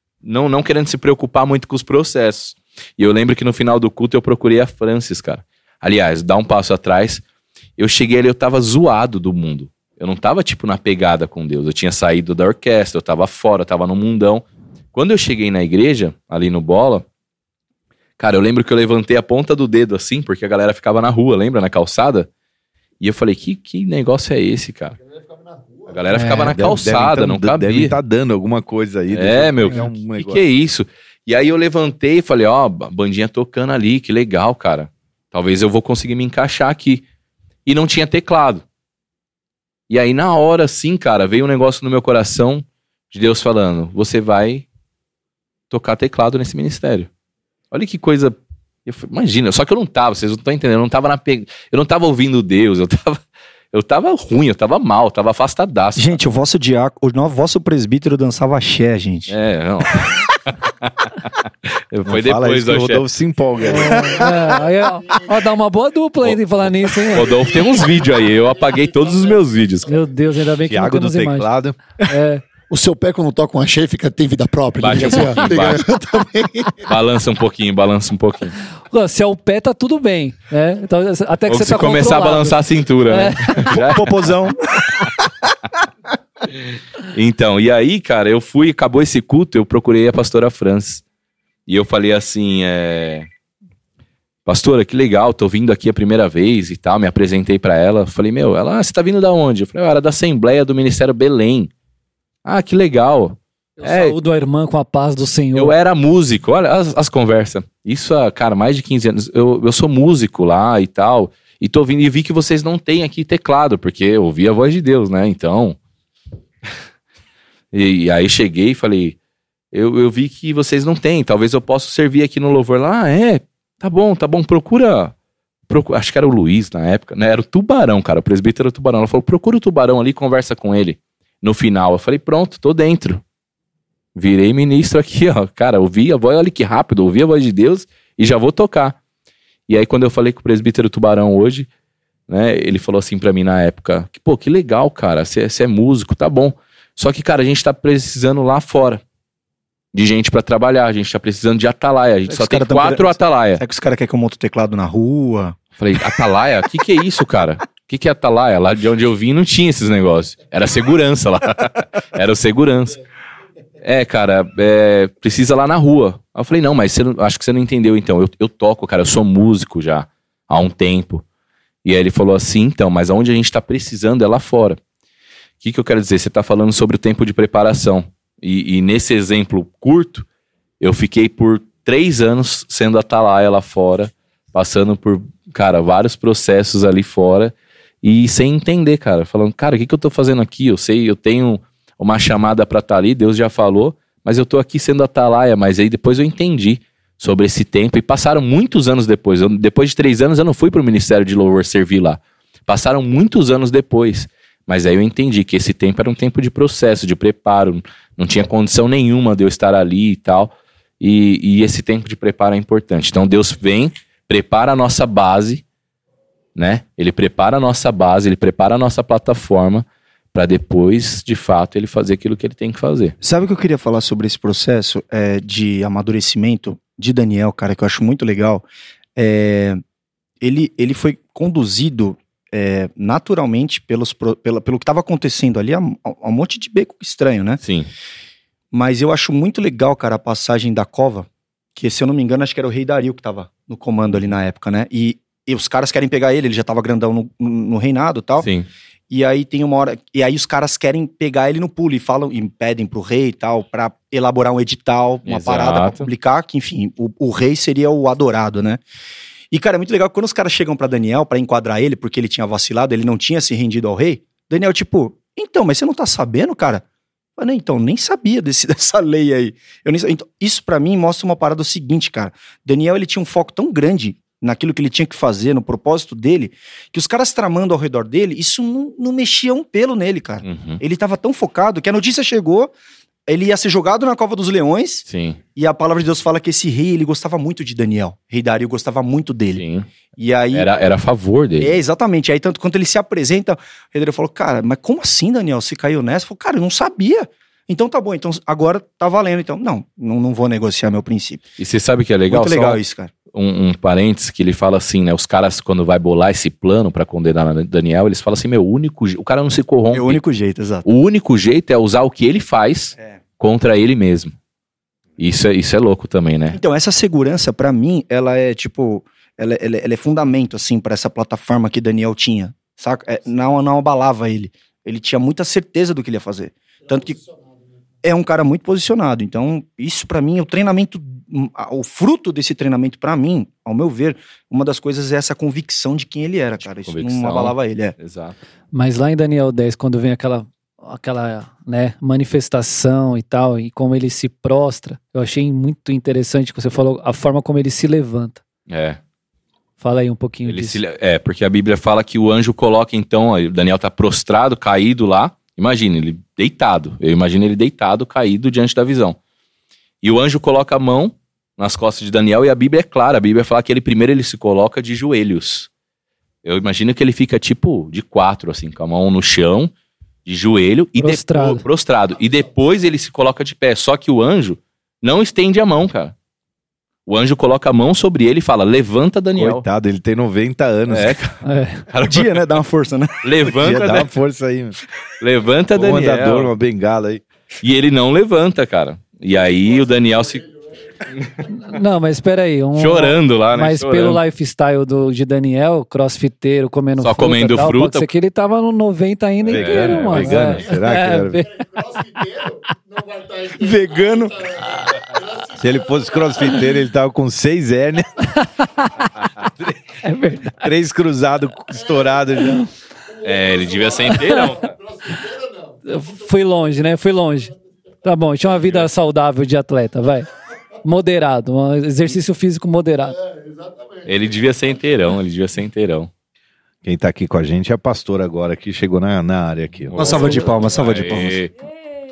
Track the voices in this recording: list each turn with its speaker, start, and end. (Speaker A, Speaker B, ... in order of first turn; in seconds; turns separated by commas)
Speaker A: 0.2-7.2, Speaker A: 7.8-17.1, Speaker A: 18.2-22.3, Speaker A: 23.0-25.0, Speaker B: 25.5-25.9, Speaker A: 25.9-27.9, Speaker C: 26.1-26.6, Speaker D: 26.5-30.4, Speaker A: 29.1-37.0, Speaker A: 37.6-38.6, Speaker A: 39.9-44.6, Speaker A: 45.7-47.1, Speaker A: 47.7-53.2, Speaker A: 53.7-56.2, Speaker E: 56.0-59.3, Speaker A: 59.3-63.0, Speaker D: 62.1-64.6, Speaker C: 63.6-67.6, Speaker A: 67.1-69.9, Speaker C: 69.9-71.5, Speaker D: 70.6-71.8, Speaker C: 72.1-72.4, Speaker B: 72.7-76.8, Speaker A: 74.8-75.8, Speaker A: 76.9-78.6, Speaker C: 78.9-83.8, Speaker A: 81.5-84.2, Speaker E: 83.8-85.1, Speaker A: 87.1-91.0, Speaker A: 91.7-93.3, Speaker A: 94.5-101.7, Speaker A: 102.4-104.2, Speaker C: 103.8-105.7, Speaker A: 105.5-115.8, Speaker A: 117.7-119.2, Speaker A: 119.7-125.1, Speaker A: 125.7-133.2, Speaker A: 134.1-139.0, Speaker A: 139.7-141.7, Speaker A: 142.3-149.0, Speaker A: 149.9-153.6, Speaker E: 152.3-156.2, Speaker A: 155.8-163.0, Speaker A: 163.8-171.2, Speaker A: 171.8-174.8, Speaker A: 175.6-180.3, Speaker A: 180.8-215.6, Speaker A: 216.6-223.1, Speaker E: 223.2-228.6, Speaker E: 229.2-229.8, Speaker E: 230.4-237.6, Speaker A: 237.6-237.9, Speaker E: 238.7-248.5, Speaker A: 248.4-248.7, Speaker E: 249.1-258.8, Speaker A: 255.3-256.1, Speaker E: 259.5-266.8, Speaker E: 267.4-282.7, Speaker A: 280.4-280.8, Speaker E: 283.3-289.6, Speaker A: 285.1-285.4, Speaker A: 289.6-289.9, Speaker E: 290.2-290.7, Speaker A: 290.5-291.8, Speaker E: 291.6-301.4, Speaker A: 301.6-302.8, Speaker E: 302.3-303.1, Speaker A: 303.3-310.2, Speaker E: 309.9-310.9, Speaker A: 310.8-314.4, Speaker A: 315.2-316.6, Speaker E: 316.5-327.2, Speaker E: 328.0-337.9, Speaker A: 336.9-338.4, Speaker C: 338.7-348.4, Speaker A: 348.7-349.0, Speaker C: 349.8-350.8, Speaker A: 350.4-359.2, Speaker A: 360.0-365.7, Speaker A: 366.4-369.7, Speaker A: 370.2-376.1, Speaker C: 371.0-371.6, Speaker A: 377.1-379.6, Speaker D: 379.4-381.2, Speaker A: 380.9-382.4, Speaker C: 381.4-381.8, Speaker E: 382.0-383.3, Speaker A: 383.2-384.1, Speaker D: 383.6-384.8, Speaker A: 385.2-386.5, Speaker D: 385.7-387.2, Speaker A: 387.6-390.5, Speaker A: 391.1-391.4, Speaker C: 391.5-401.4, Speaker A: 392.8-394.2, Speaker A: 397.0-398.1, Speaker A: 399.5-400.7, Speaker D: 399.5-401.4, Speaker B: 401.5-406.3, Speaker E: 403.6-404.4, Speaker D: 405.6-408.2, Speaker C: 408.3-409.1, Speaker D: 409.4-409.7, Speaker C: 410.0-410.7, Speaker D: 410.6-412.6, Speaker B: 413.2-416.1, Speaker A: 413.2-414.7, Speaker C: 414.2-414.5, Speaker C: 415.9-420.3, Speaker C: 420.8-423.2, Speaker B: 423.2-424.1, Speaker A: 424.1-426.1, Speaker D: 426.8-430.5, Speaker A: 429.9-431.5, Speaker E: 429.9-431.4